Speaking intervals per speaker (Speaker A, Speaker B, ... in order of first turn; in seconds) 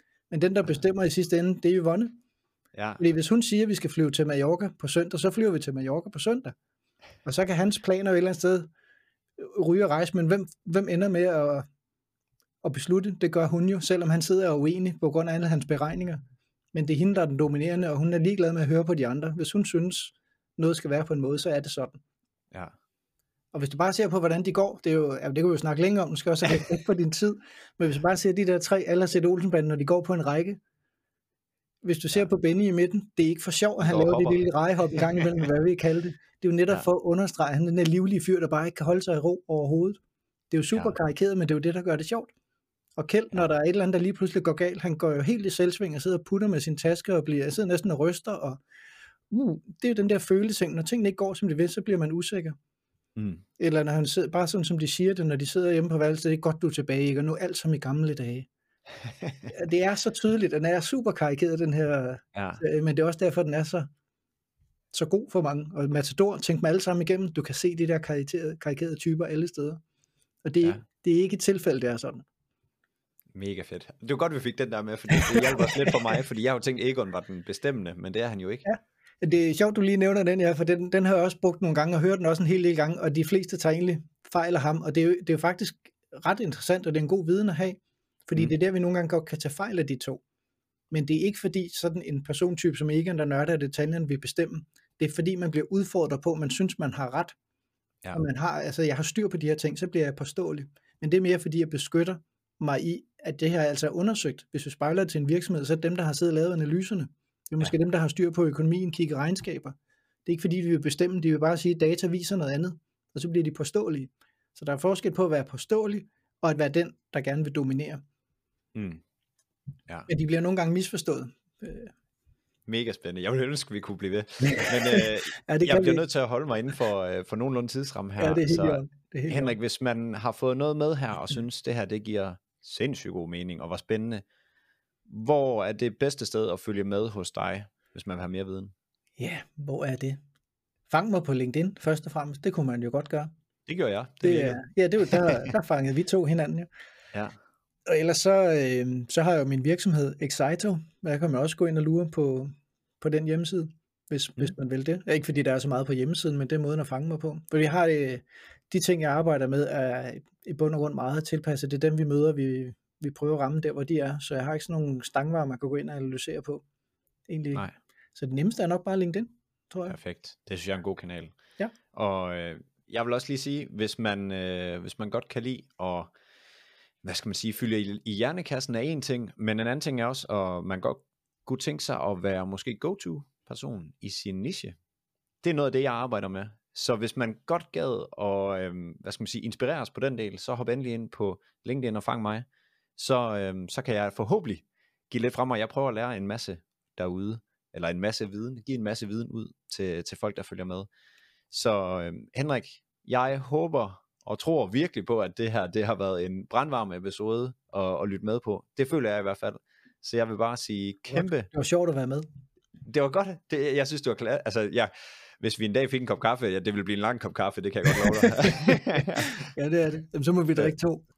Speaker A: 0.3-2.2, 3.0-6.5, 7.2-8.7, 9.4-11.7, 12.6-16.2, 16.7-22.0, 23.5-30.6, 31.8-40.0, 40.5-42.3, 43.0-48.6, 49.3-52.5, 53.6-58.5, 59.5-63.9, 64.9-69.8, 70.4-72.2, 75.1-75.9, 78.6-90.2, 90.9-97.3, 98.1-118.0, 120.1-121.9, 124.4-126.0, 128.2-129.6, 139.2-140.2, 140.9-143.3, 144.2-146.7, 147.8-166.6, 167.3-170.0, 211.1-212.2, 217.9-221.0
Speaker B: 2.7-3.0, 33.8-35.3, 53.1-53.4, 59.2-59.5, 62.3-62.6, 73.3-78.6, 118.7-119.0, 122.7-134.2, 135.1-138.7, 143.7-144.6, 145.1-145.4, 169.9-171.3, 171.9-176.1, 177.0-184.8, 185.4-192.4, 193.0-200.9, 201.5-211.5, 212.8-219.4